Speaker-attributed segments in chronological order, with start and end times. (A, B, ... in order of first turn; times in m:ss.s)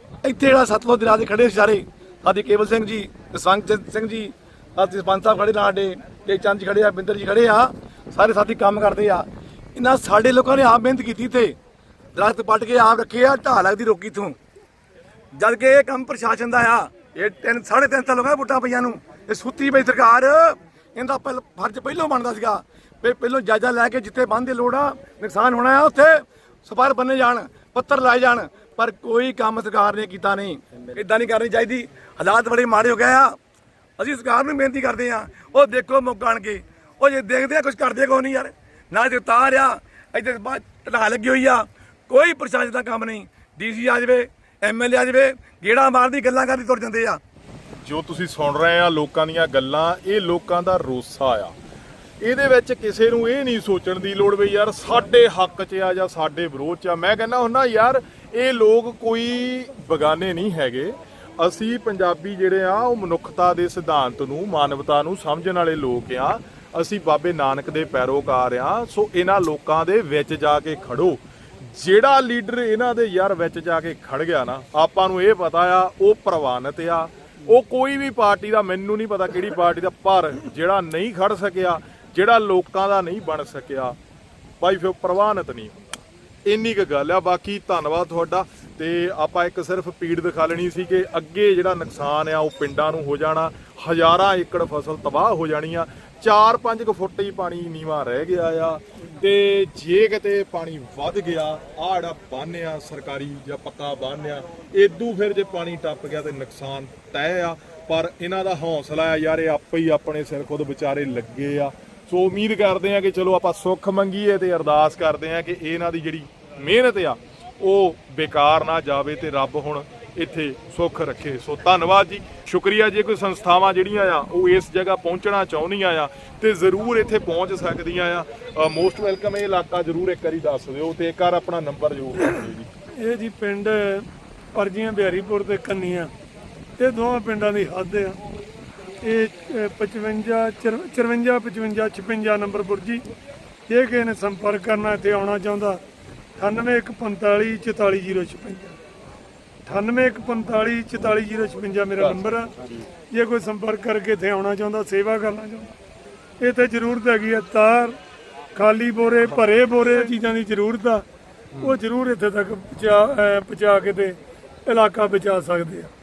0:00.2-0:11.6 A
0:12.2-0:14.4 A
0:15.3-0:33.4 A
0:34.0-0:47.2 A
0:47.8-0:51.6 B
0:52.2-1:24.0 B
1:24.6-2:12.7 B
2:13.0-2:16.1 C
2:16.8-2:18.2 C
2:19.0-2:23.0 C
2:23.7-2:25.8 C
2:26.4-2:28.8 C
2:29.7-2:32.5 C
2:32.0-2:32.9 B
2:33.1-2:35.7 C
2:36.4-2:38.0 C
2:38.6-2:41.0 C
2:41.5-2:41.8 B
2:41.6-2:45.9 C